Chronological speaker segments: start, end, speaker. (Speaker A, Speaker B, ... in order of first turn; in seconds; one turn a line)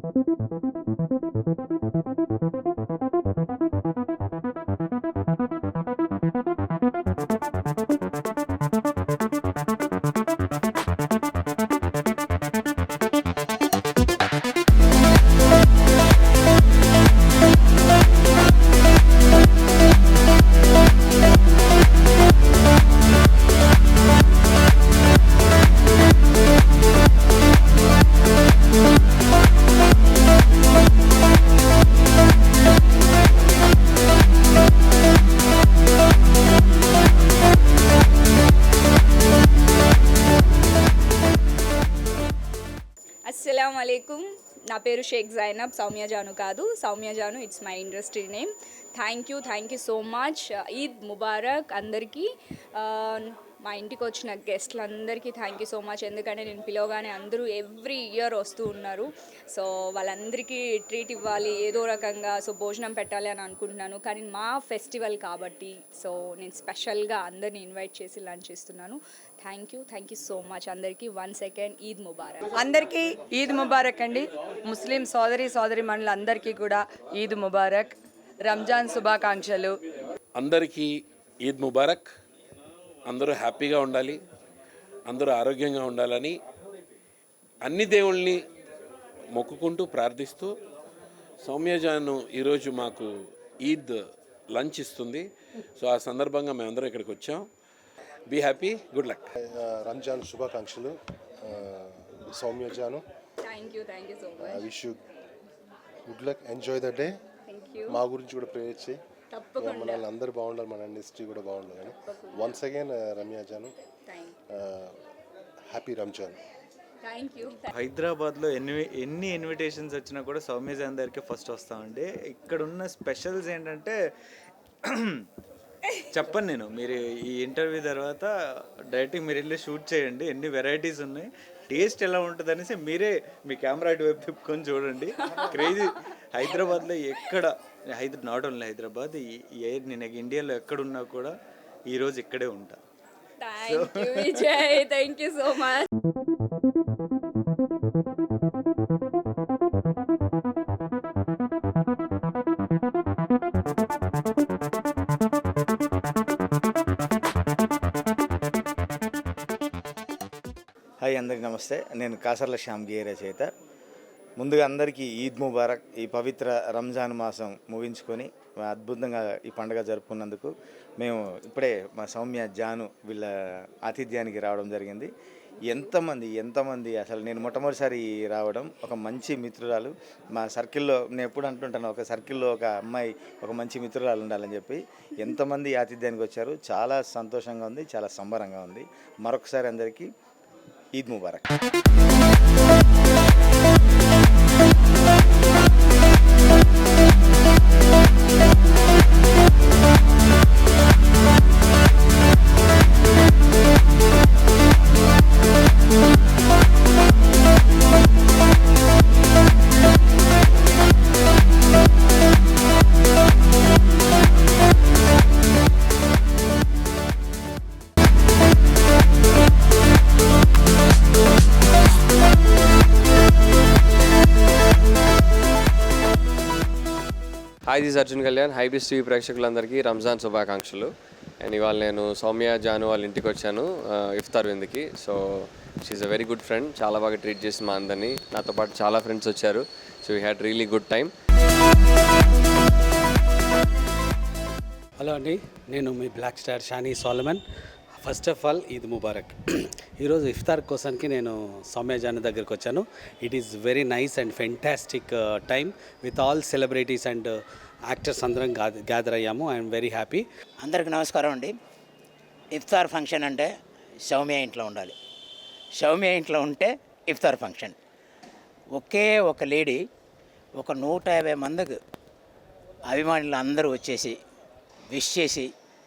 Speaker A: 43.3-72.5
Speaker B: 72.5-79.8
Speaker C: 80.3-80.9
Speaker C: 81.4-82.1
Speaker C: 83.1-84.2
Speaker C: 85.1-86.4
Speaker C: 87.6-88.5
Speaker C: 89.3-90.6
Speaker C: 91.4-93.1
Speaker C: 93.6-97.5
Speaker C: 98.3-99.3
Speaker D: 99.4-103.0
Speaker A: 103.4-104.7
Speaker D: 104.4-105.0
Speaker D: 106.1-107.1
Speaker A: 107.5-108.0
Speaker D: 107.9-109.0
Speaker A: 109.3-110.1
Speaker D: 109.6-113.8
Speaker A: 112.1-112.6
Speaker A: 114.1-114.4
Speaker D: 114.5-114.9
Speaker D: 115.7-116.4
Speaker A: 117.0-117.7
Speaker E: 117.7-124.0
Speaker E: 124.9-125.2
Speaker E: 126.1-128.3
Speaker E: 128.9-141.3
Speaker E: 141.9-142.8
Speaker A: 143.4-145.9
Speaker E: 143.7-144.5
Speaker F: 161.0-163.5
Speaker F: 164.4-173.3
Speaker F: 173.8-175.1
Speaker F: 175.7-190.1
Speaker F: 191.0-191.5
Speaker G: 227.7-241.1
Speaker H: 245.0-247.4
Speaker H: 248.0-257.4
Speaker H: 257.9-260.2
Speaker I: 260.6-261.6
Speaker I: 262.5-263.5
Speaker I: 264.1-264.9
Speaker I: 265.8-267.8
Speaker I: 268.7-269.8
Speaker I: 270.6-271.8
Speaker I: 272.9-274.2
Speaker I: 274.9-275.5